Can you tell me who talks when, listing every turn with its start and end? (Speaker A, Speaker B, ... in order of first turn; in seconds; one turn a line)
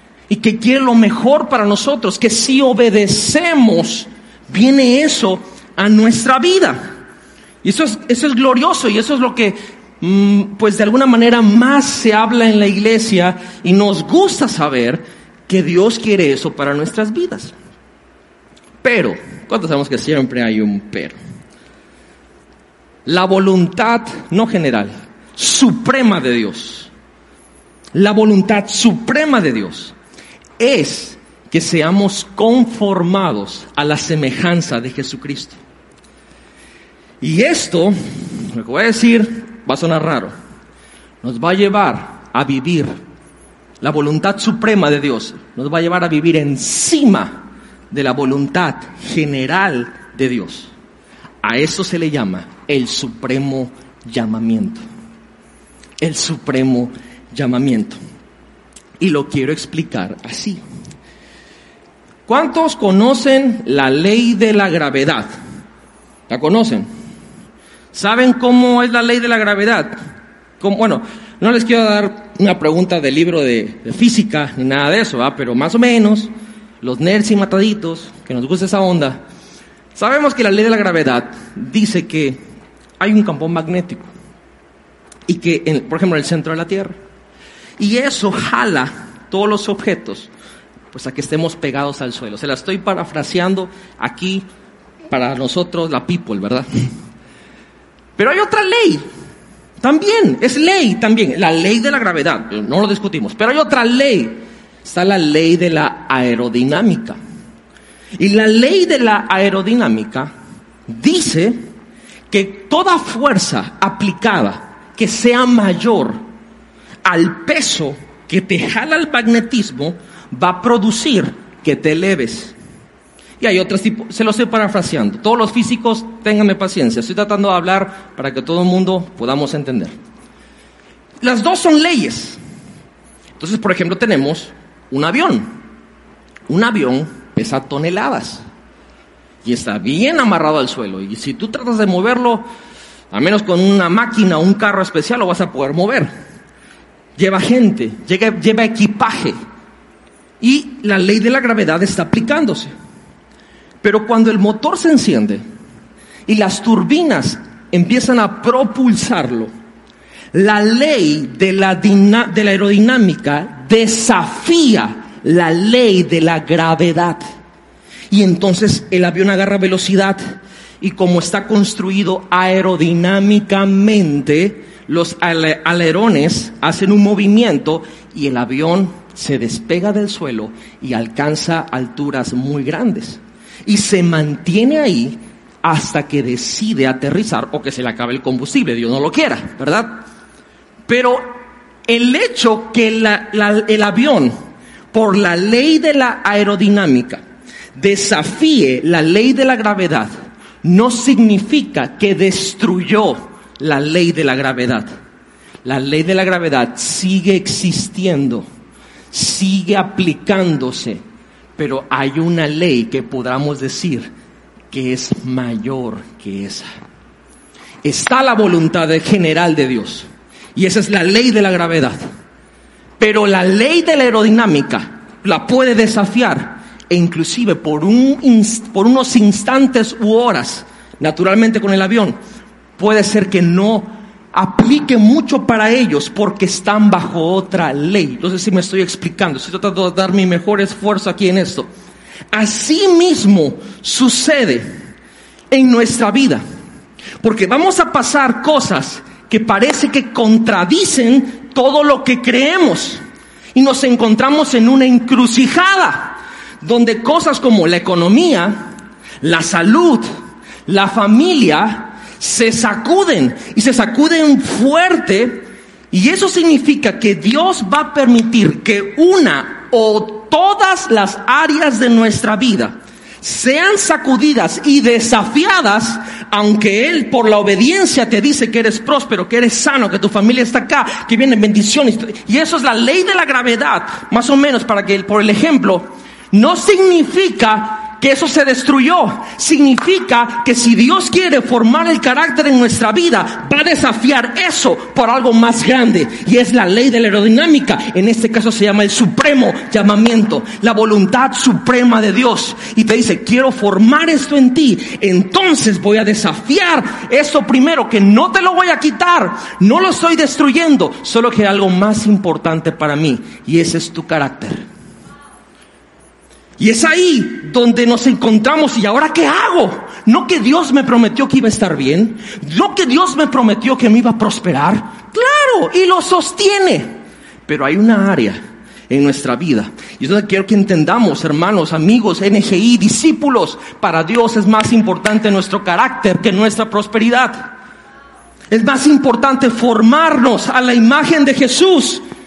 Speaker A: 0.3-6.9
Speaker A: 7.6-17.5
Speaker A: 18.8-21.1
Speaker A: 23.1-26.9
Speaker A: 27.9-29.9
Speaker A: 30.6-35.6
Speaker A: 37.2-40.3
Speaker A: 41.2-42.9
Speaker A: 43.8-50.7
Speaker A: 51.4-54.8
Speaker A: 56.0-58.0
Speaker A: 59.0-60.6
Speaker A: 62.3-65.3
Speaker A: 66.3-66.8
Speaker A: 67.9-69.9
Speaker A: 70.6-76.3
Speaker A: 76.8-79.2
Speaker A: 79.9-82.4
Speaker A: 83.0-84.1
Speaker A: 85.3-87.0
Speaker A: 87.8-90.3
Speaker A: 90.9-94.4
Speaker A: 95.1-96.7
Speaker A: 98.2-99.0
Speaker A: 99.8-107.2
Speaker A: 108.2-110.3
Speaker A: 110.9-111.6
Speaker A: 112.3-116.2
Speaker A: 117.0-122.5
Speaker A: 123.4-129.9
Speaker A: 131.2-132.4
Speaker A: 133.4-135.5
Speaker A: 136.5-138.4
Speaker A: 139.4-142.4
Speaker A: 143.1-146.1
Speaker A: 147.2-149.3
Speaker A: 150.4-152.7
Speaker A: 153.8-155.4
Speaker A: 156.3-159.5
Speaker A: 160.3-167.2
Speaker A: 168.1-170.2
Speaker A: 170.8-190.0
Speaker A: 190.9-191.3
Speaker A: 191.9-194.3
Speaker A: 194.9-197.2
Speaker A: 197.8-200.1
Speaker A: 200.6-204.8
Speaker A: 205.6-208.4
Speaker A: 209.1-211.0
Speaker A: 211.6-214.1
Speaker A: 214.7-216.7
Speaker A: 217.8-222.0
Speaker A: 223.0-232.2
Speaker A: 232.8-241.7
Speaker A: 242.3-244.7
Speaker A: 245.5-246.4
Speaker A: 247.2-253.0
Speaker A: 253.5-258.7
Speaker A: 259.2-260.0
Speaker A: 260.6-314.6
Speaker A: 316.6-326.9
Speaker A: 327.4-337.5
Speaker A: 338.5-342.0